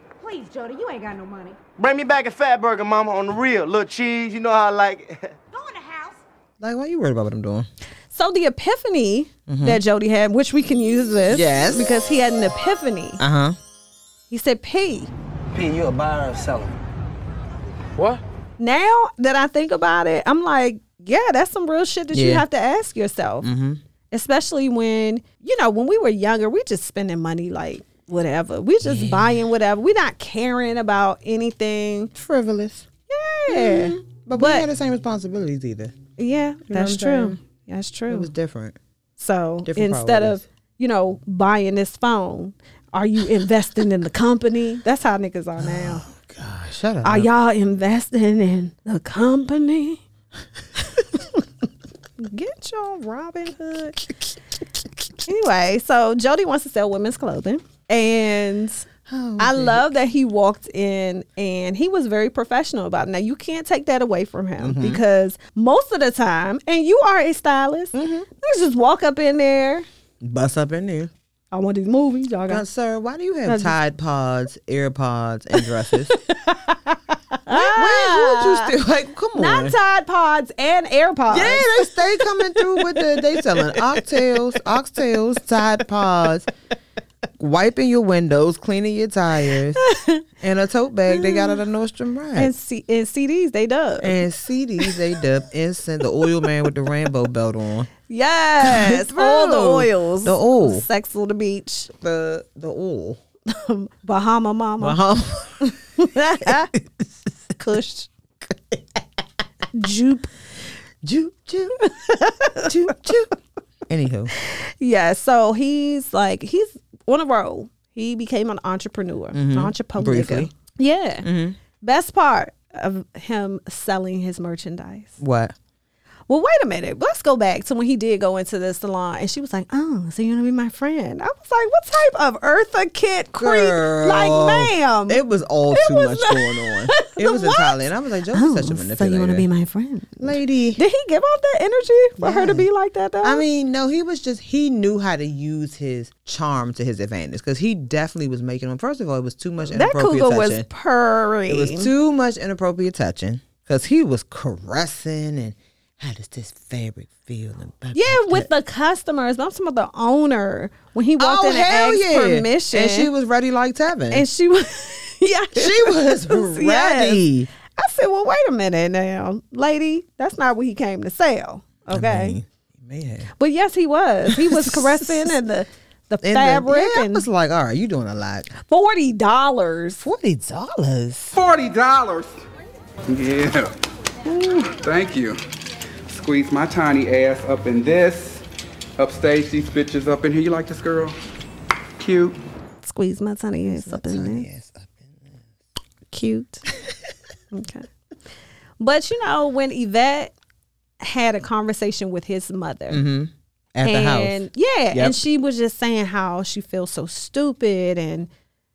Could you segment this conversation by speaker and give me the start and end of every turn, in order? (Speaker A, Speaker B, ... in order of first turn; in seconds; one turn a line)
Speaker A: 0.2-1.6
Speaker B: 1.8-5.3
Speaker A: 5.5-6.2
Speaker C: 6.6-7.7
Speaker D: 8.1-13.2
Speaker C: 9.5-9.8
Speaker C: 11.3-11.9
Speaker C: 13.2-13.6
Speaker D: 14.3-15.1
Speaker C: 15.8-16.7
Speaker D: 18.6-23.5
Speaker C: 22.1-22.4
Speaker C: 23.4-23.8
Speaker D: 24.1-32.1
Speaker C: 28.8-29.4
Speaker C: 32.1-32.9
Speaker D: 33.1-34.7
Speaker C: 33.5-35.9
Speaker D: 36.2-38.3
Speaker C: 36.7-37.4
Speaker C: 38.1-38.8
Speaker D: 39.2-46.0
Speaker C: 39.6-40.4
Speaker C: 45.6-47.3
Speaker D: 47.0-50.0
Speaker D: 51.0-51.4
Speaker D: 52.2-54.1
Speaker D: 55.2-58.8
Speaker C: 59.1-59.9
Speaker D: 59.4-69.8
Speaker C: 64.6-65.0
Speaker C: 67.9-68.3
Speaker C: 70.2-71.1
Speaker D: 71.5-72.6
Speaker C: 72.5-76.2
Speaker D: 73.4-73.8
Speaker D: 76.1-78.7
Speaker C: 77.5-79.8
Speaker D: 79.3-84.0
Speaker C: 81.3-86.5
Speaker C: 87.4-89.8
Speaker D: 89.8-90.2
Speaker C: 90.4-92.5
Speaker D: 91.1-91.6
Speaker D: 92.3-94.2
Speaker C: 94.0-97.9
Speaker D: 98.1-101.9
Speaker C: 98.6-100.8
Speaker C: 102.0-103.2
Speaker D: 103.5-105.0
Speaker C: 104.8-107.3
Speaker D: 105.6-106.7
Speaker D: 107.5-108.1
Speaker D: 109.7-110.3
Speaker C: 111.0-111.8
Speaker D: 111.8-112.7
Speaker C: 112.6-113.3
Speaker C: 113.9-114.3
Speaker D: 114.4-121.3
Speaker C: 119.3-120.5
Speaker C: 121.2-121.6
Speaker D: 121.8-125.2
Speaker C: 125.2-125.5
Speaker D: 126.3-143.4
Speaker C: 133.4-139.4
Speaker C: 140.2-140.8
Speaker C: 142.2-142.7
Speaker C: 143.2-150.7
Speaker D: 149.7-151.9
Speaker C: 151.5-158.5
Speaker D: 157.9-163.1
Speaker C: 161.2-164.2
Speaker D: 164.1-172.3
Speaker C: 165.5-167.5
Speaker C: 171.9-173.3
Speaker D: 173.4-177.2
Speaker C: 174.3-175.3
Speaker C: 176.2-178.5
Speaker D: 178.6-180.0
Speaker C: 180.0-181.3
Speaker E: 181.3-182.4
Speaker E: 183.1-185.4
Speaker E: 186.1-188.4
Speaker E: 189.0-191.2
Speaker E: 192.0-192.4
Speaker D: 192.8-194.5
Speaker C: 193.6-195.4
Speaker D: 196.1-196.7
Speaker D: 197.5-197.9
Speaker D: 198.8-200.3
Speaker D: 201.0-203.0
Speaker C: 202.9-205.2
Speaker D: 203.8-208.3